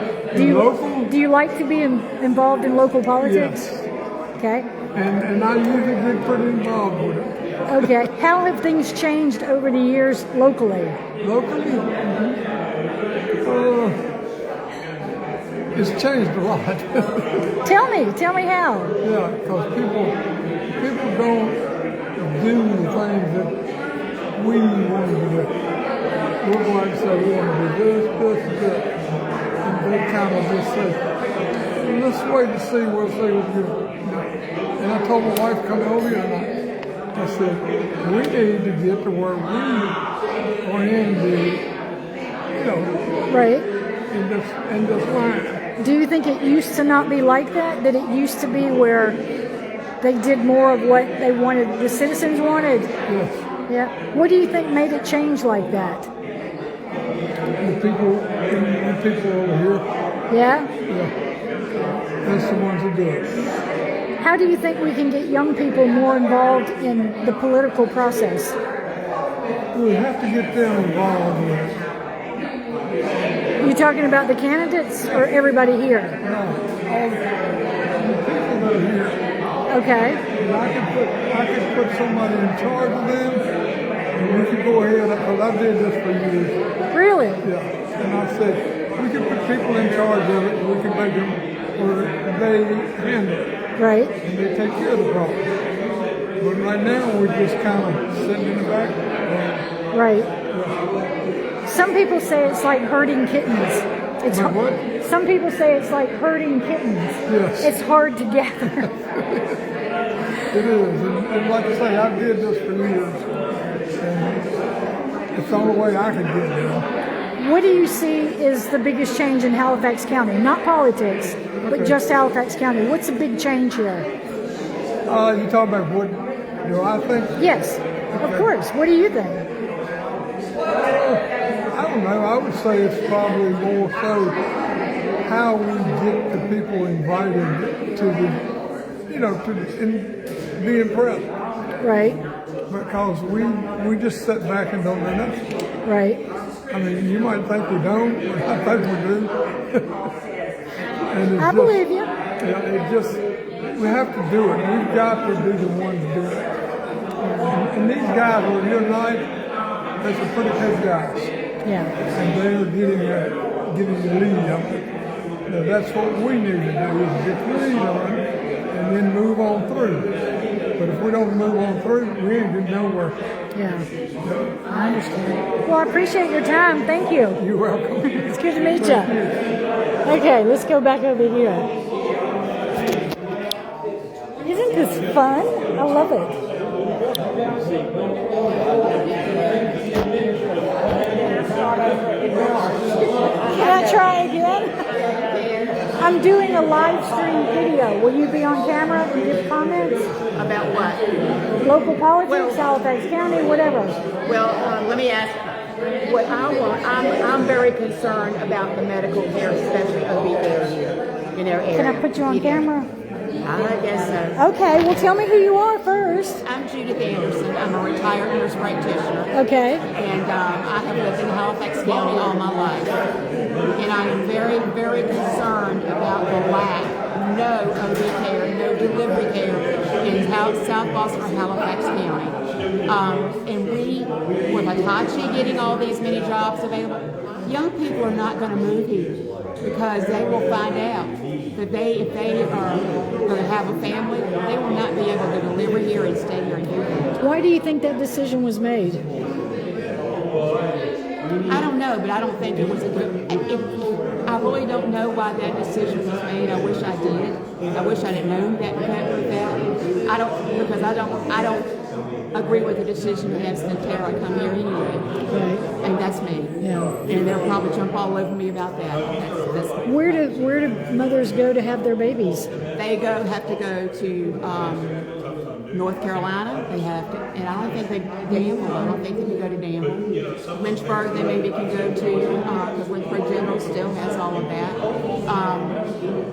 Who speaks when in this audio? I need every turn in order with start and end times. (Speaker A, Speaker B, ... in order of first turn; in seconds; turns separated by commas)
Speaker A: 0.3-1.1, Speaker B: 0.3-3.6, Speaker A: 3.2-3.9, Speaker B: 4.4-4.7, Speaker A: 4.9-8.0, Speaker B: 7.7-11.0, Speaker A: 11.2-12.4, Speaker A: 13.4-14.0, Speaker A: 15.7-17.5, Speaker B: 17.6-18.9, Speaker A: 19.0-20.2, Speaker A: 20.7-21.6, Speaker A: 22.2-23.6, Speaker A: 24.4-25.5, Speaker A: 26.4-28.9, Speaker A: 29.6-31.1, Speaker A: 31.8-36.5, Speaker A: 37.1-40.0, Speaker A: 40.6-41.7, Speaker A: 42.5-43.3, Speaker B: 43.3-43.7, Speaker A: 44.1-45.6, Speaker B: 45.8-49.2, Speaker B: 50.0-52.9, Speaker A: 53.1-53.5, Speaker B: 53.7-56.1, Speaker A: 57.6-59.9, Speaker B: 60.3-60.7, Speaker A: 60.9-61.1, Speaker A: 62.2-63.4, Speaker B: 64.2-68.6, Speaker A: 69.7-71.8, Speaker B: 73.6-76.2, Speaker A: 76.2-77.4, Speaker A: 77.9-79.2, Speaker B: 79.7-80.2, Speaker A: 80.4-83.5, Speaker A: 84.1-86.6, Speaker B: 86.9-87.4, Speaker A: 87.4-93.5, Speaker B: 93.8-94.1, Speaker A: 94.2-95.5, Speaker A: 96.4-99.7, Speaker B: 99.9-100.3, Speaker A: 100.5-100.8, Speaker B: 101.7-108.9, Speaker A: 104.3-104.8, Speaker A: 107.3-107.7, Speaker A: 108.8-109.5, Speaker A: 110.5-113.3, Speaker A: 114.0-114.5, Speaker A: 115.3-116.9, Speaker B: 117.4-124.1, Speaker A: 121.6-122.0, Speaker A: 125.1-127.4, Speaker B: 127.4-129.5, Speaker A: 128.1-128.5, Speaker A: 130.8-134.4, Speaker A: 135.2-138.4, Speaker A: 139.1-141.3, Speaker B: 141.8-142.2, Speaker A: 142.7-145.4, Speaker B: 145.8-146.2, Speaker A: 146.7-149.9, Speaker A: 151.1-151.8, Speaker B: 151.4-152.1, Speaker A: 152.4-153.2, Speaker A: 153.8-156.5, Speaker A: 157.5-159.3, Speaker A: 160.0-161.3, Speaker B: 161.6-161.9, Speaker A: 162.2-164.8, Speaker A: 165.5-170.1, Speaker A: 170.8-173.2, Speaker B: 173.6-173.9, Speaker A: 174.2-174.6, Speaker B: 174.7-177.4, Speaker A: 177.4-179.4, Speaker B: 178.2-179.1, Speaker B: 180.1-181.7, Speaker B: 184.4-186.3, Speaker C: 191.2-194.1, Speaker B: 193.5-194.9, Speaker C: 195.0-195.9, Speaker B: 196.0-200.1, Speaker C: 200.3-201.1, Speaker B: 201.6-204.0, Speaker C: 202.2-202.7, Speaker C: 204.2-212.7, Speaker B: 211.7-212.9, Speaker C: 213.4-214.4, Speaker B: 214.4-216.4, Speaker C: 216.4-219.3, Speaker B: 219.3-219.8, Speaker C: 219.9-222.9, Speaker C: 223.8-247.2, Speaker B: 247.2-249.0, Speaker C: 251.5-261.7, Speaker C: 262.3-265.1, Speaker B: 265.3-265.7, Speaker C: 265.8-270.2, Speaker B: 266.6-266.9, Speaker B: 269.9-272.5, Speaker C: 272.8-275.1, Speaker C: 275.7-285.8